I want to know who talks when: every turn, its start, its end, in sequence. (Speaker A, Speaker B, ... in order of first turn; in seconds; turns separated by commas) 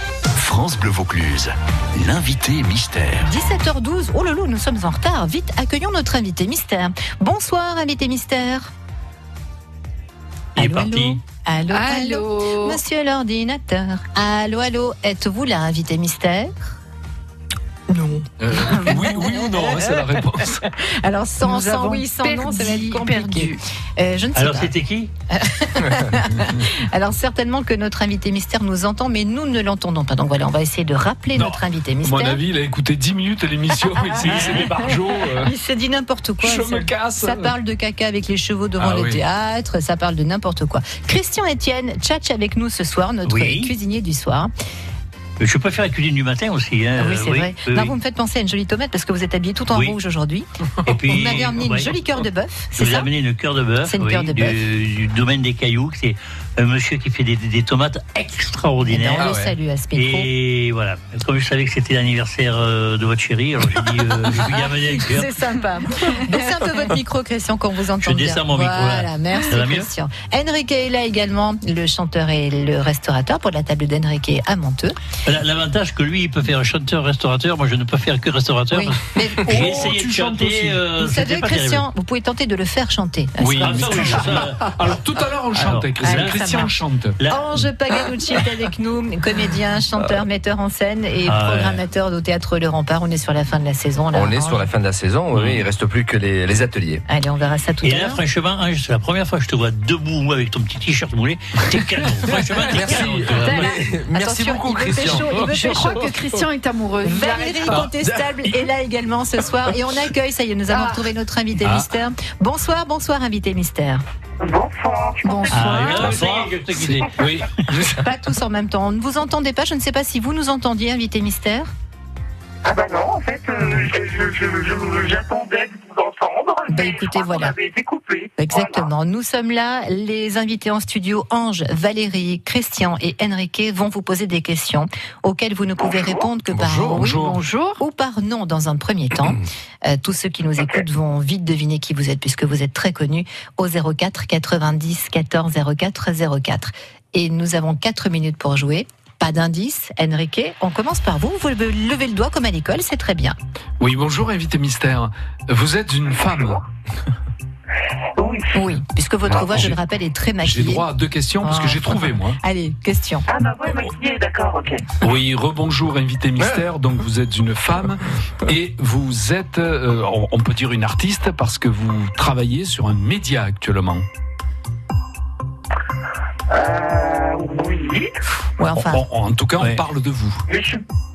Speaker A: 0.3-3.3, Speaker B: 3.2-8.7, Speaker C: 10.6-11.2, Speaker B: 10.6-16.7, Speaker D: 11.7-12.8, Speaker B: 17.9-24.7, Speaker E: 18.4-20.6, Speaker D: 21.4-23.6, Speaker C: 24.3-25.1, Speaker B: 25.3-32.4, Speaker E: 31.3-35.5, Speaker B: 34.0-44.5, Speaker C: 34.2-34.6, Speaker E: 36.4-37.5, Speaker E: 38.8-39.2, Speaker C: 43.2-43.7, Speaker C: 45.4-47.9, Speaker B: 47.0-53.1, Speaker C: 50.9-51.9, Speaker C: 52.7-59.3, Speaker B: 53.8-54.6, Speaker B: 58.9-60.3, Speaker F: 59.2-59.5, Speaker C: 59.9-65.3, Speaker B: 64.5-75.0, Speaker C: 68.0-69.9, Speaker C: 75.2-81.8, Speaker B: 78.7-79.5, Speaker E: 79.4-80.8, Speaker B: 81.0-84.4, Speaker E: 83.4-87.2, Speaker C: 83.6-84.8, Speaker C: 85.5-86.3, Speaker B: 86.0-86.7, Speaker C: 87.2-87.6, Speaker B: 87.3-94.7, Speaker C: 91.2-91.8, Speaker F: 94.1-97.0, Speaker C: 95.3-95.6, Speaker B: 97.1-98.2, Speaker C: 97.8-103.9, Speaker F: 102.6-105.4, Speaker B: 103.4-106.2, Speaker D: 105.4-107.9, Speaker B: 107.0-114.0, Speaker D: 110.7-111.0, Speaker E: 111.6-111.9, Speaker G: 114.4-116.4, Speaker D: 115.2-116.2, Speaker C: 115.5-117.6, Speaker E: 116.1-118.1, Speaker B: 118.0-121.7, Speaker G: 122.6-128.9, Speaker B: 126.7-127.5, Speaker B: 128.4-153.4, Speaker E: 136.5-137.4, Speaker D: 137.0-137.8, Speaker E: 153.8-156.6, Speaker G: 158.2-158.7, Speaker B: 158.5-160.9, Speaker E: 159.3-159.8, Speaker E: 160.4-162.4, Speaker B: 161.4-163.2, Speaker G: 163.3-164.8, Speaker E: 165.0-174.1, Speaker G: 176.5-178.1, Speaker B: 178.6-179.0, Speaker E: 178.7-180.4, Speaker G: 180.5-180.8